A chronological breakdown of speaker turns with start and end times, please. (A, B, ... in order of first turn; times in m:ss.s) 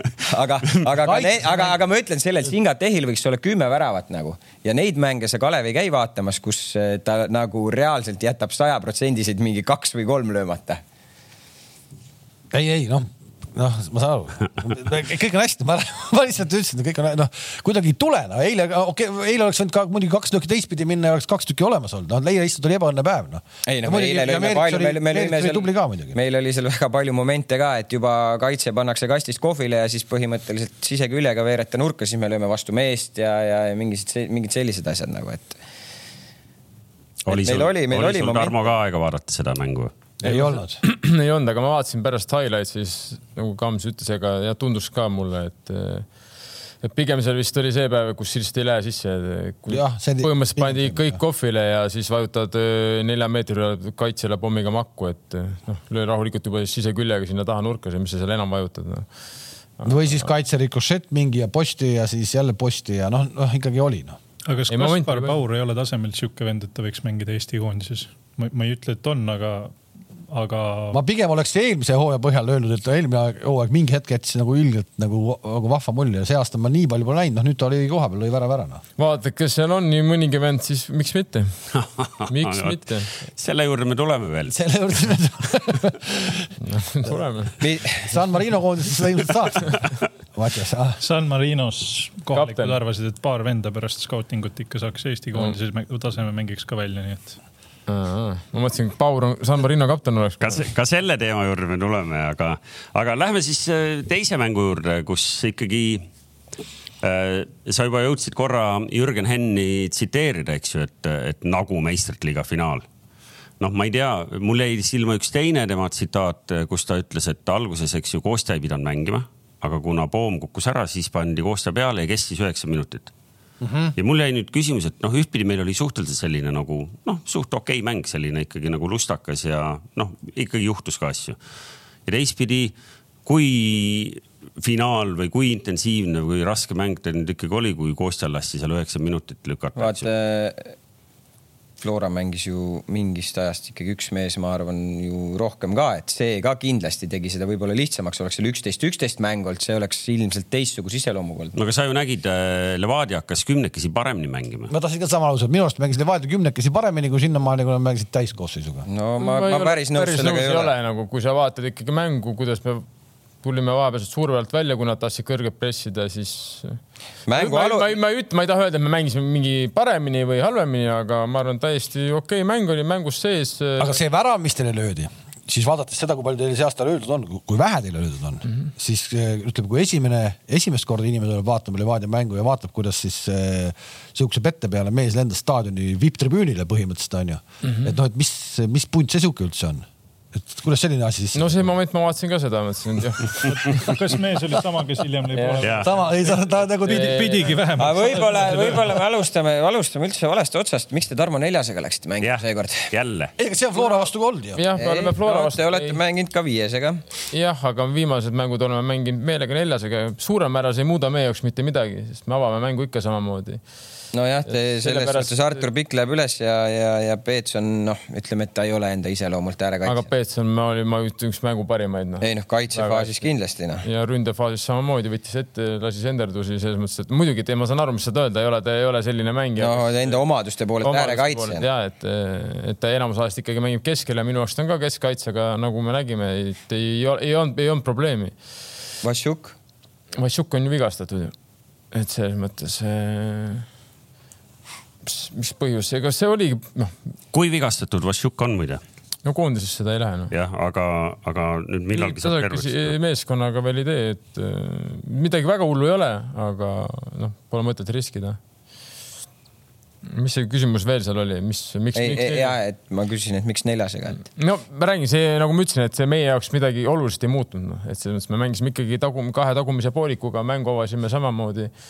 0:00.2-0:10.8 A
0:01.0-0:01.8 B
0:12.5-0:26.2 B
0:23.7-0:35.6 A
0:37.3-0:39.9 C
0:37.3-0:38.5 A
0:40.2-0:40.8 B
0:40.3-0:46.1 D
0:46.8-0:59.1 D
0:49.7-0:51.2 B
0:59.8-1:00.3 D
0:59.8-1:04.2 B
1:04.5-1:09.8 E
1:04.7-1:05.4 D
1:10.3-1:11.0 E
1:10.9-1:18.8 B
1:19.0-1:21.6 D
1:21.7-1:24.6 C
1:22.3-1:23.1 D
1:24.5-1:26.5 B
1:26.6-1:27.6 D
1:27.6-1:28.2 A
1:28.0-1:29.8 B
1:30.3-1:31.0 B
1:31.0-1:37.4 E
1:32.3-1:32.8 D
1:37.9-1:40.6 D
1:40.4-1:46.1 C
1:47.0-1:52.8 C
1:53.6-2:03.1 C
2:03.6-2:03.9 B
2:04.0-2:11.4 C
2:12.1-2:12.7 C
2:13.3-2:20.1 C
2:19.8-2:20.7 A
2:21.8-2:31.6 A
2:31.6-2:34.7 C
2:34.7-2:38.9 B
2:38.8-2:40.7 A
2:39.2-2:42.9 D
2:43.4-2:54.0 D
2:47.3-2:47.9 A
2:53.8-3:11.7 B
3:11.4-3:13.9 D
3:13.5-3:18.8 E
3:15.3-3:15.7 D
3:15.8-3:17.3 B
3:16.9-3:17.5 D
3:17.8-3:22.9 A
3:22.2-3:23.3 C
3:23.4-3:24.6 B
3:24.6-3:26.0 D
3:24.8-3:27.0 A
3:27.3-3:33.6 D
3:34.1-3:40.0 A
3:34.5-3:35.6 D
3:39.8-3:43.2 D
3:42.2-3:43.8 A
3:43.8-3:50.2 D
3:49.6-3:51.6 A
3:50.8-3:58.3 D
3:59.0-3:59.5 A
4:00.2-4:01.3 D
4:01.9-4:03.7 D
4:05.0-4:07.0 D
4:07.3-4:08.8 C
4:09.2-4:10.3 D
4:10.3-4:13.0 C
4:11.9-4:18.4 D
4:20.0-4:22.6 D
4:22.0-4:24.3 A
4:24.4-4:31.7 D